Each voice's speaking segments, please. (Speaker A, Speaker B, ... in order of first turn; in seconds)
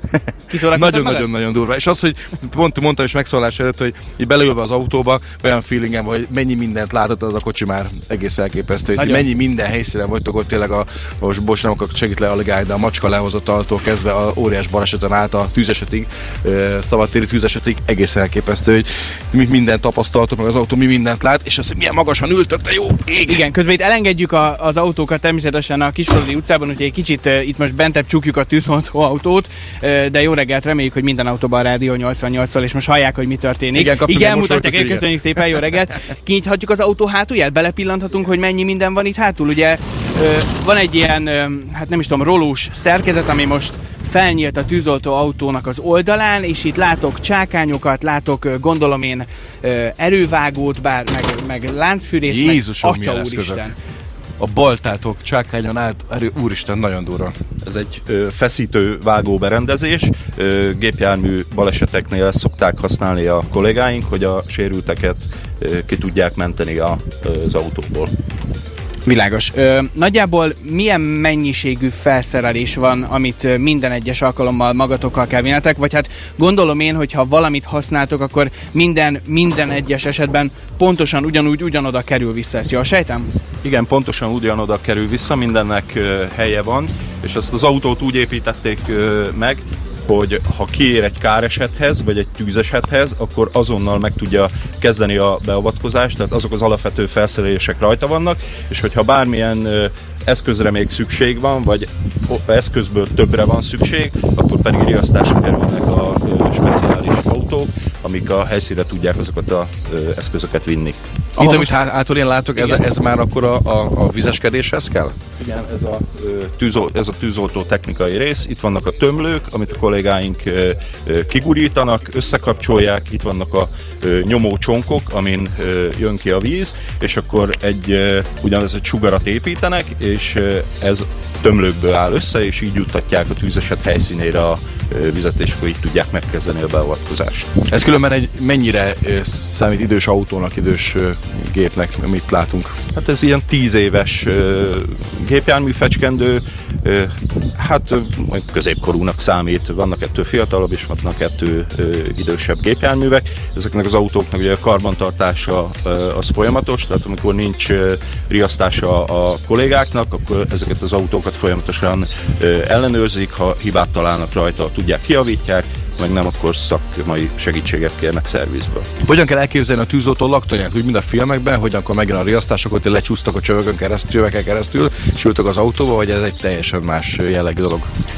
Speaker A: 0.1-23.4, 33.7-35.1, 52.3-53.6, 54.4-57.4, 111.4-115.2, 137.7-142.8, 169.0-177.9
Speaker B: 0.4-1.3, 9.0-9.2, 23.3-53.8, 69.0-83.3, 111.4-111.7
Speaker C: 57.6-68.1, 83.6-111.0, 115.4-137.6, 142.9-168.9